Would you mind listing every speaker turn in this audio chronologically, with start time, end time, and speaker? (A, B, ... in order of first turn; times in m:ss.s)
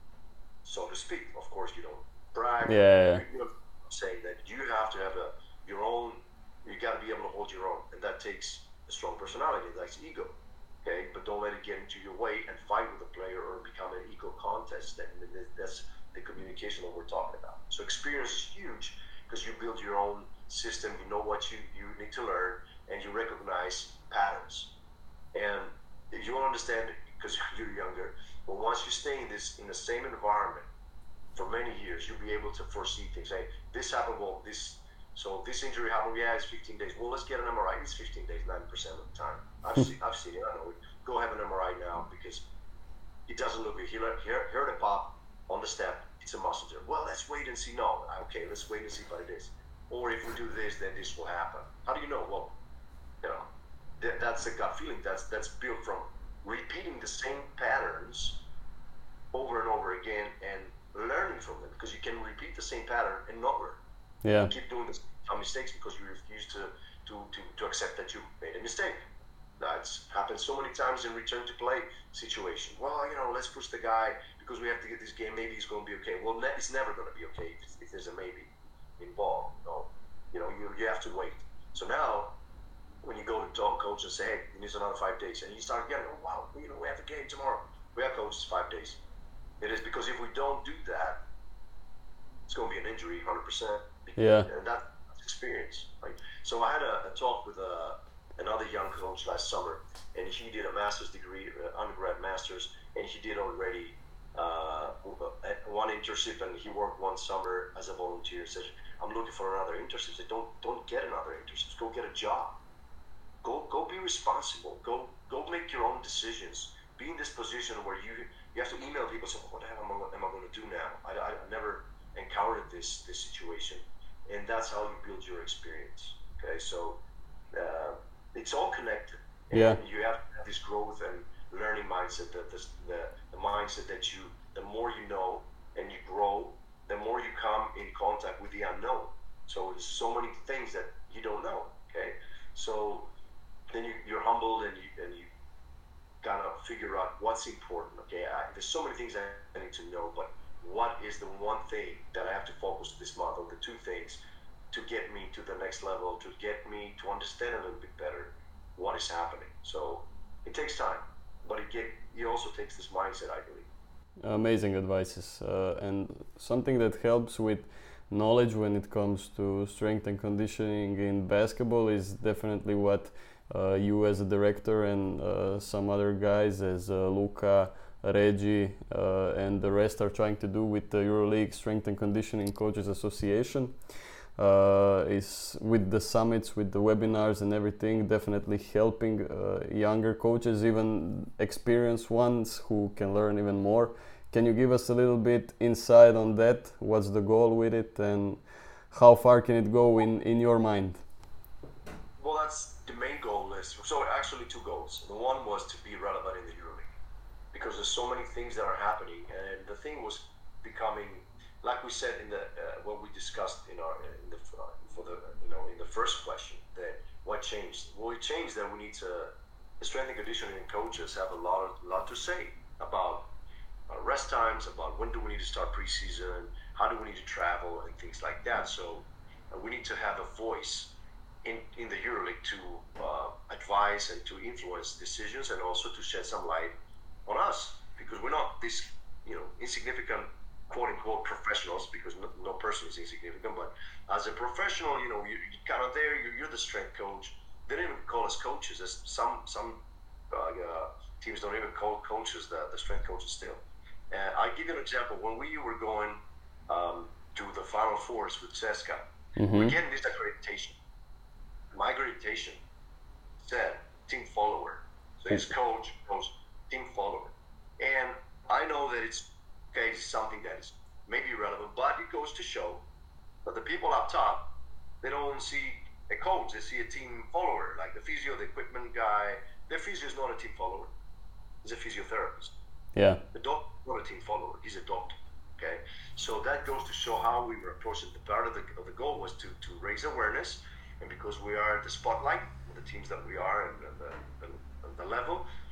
0:00.6-0:24.7 A
0:02.6-0:03.2 B
0:25.3-0:30.7 A
0:31.3-0:42.5 A
0:43.3-0:52.6 A
0:53.2-0:58.4 A
0:59.3-1:03.8 A
1:04.2-1:04.5 B
1:04.4-1:09.0 A
1:09.6-1:22.4 A
1:23.0-1:29.0 A
1:29.6-1:31.2 A
1:32.5-1:52.6 A
1:34.2-1:34.5 B
1:53.4-2:07.0 A
2:07.5-2:23.1 A
2:09.5-2:09.8 B
2:23.7-2:25.3 A
2:26.2-2:34.2 A
2:34.7-2:43.7 A
2:44.2-3:03.8 B
3:04.4-3:21.0 B
3:22.2-3:26.9 A
3:27.5-3:43.3 A
3:43.9-3:56.7 A
3:57.2-4:20.8 A
4:19.4-4:19.7 B
4:21.7-4:22.6 A
4:23.4-4:32.8 A
4:33.4-4:40.9 A
4:41.6-4:42.5 A
4:42.9-4:43.2 B
4:43.3-4:55.4 A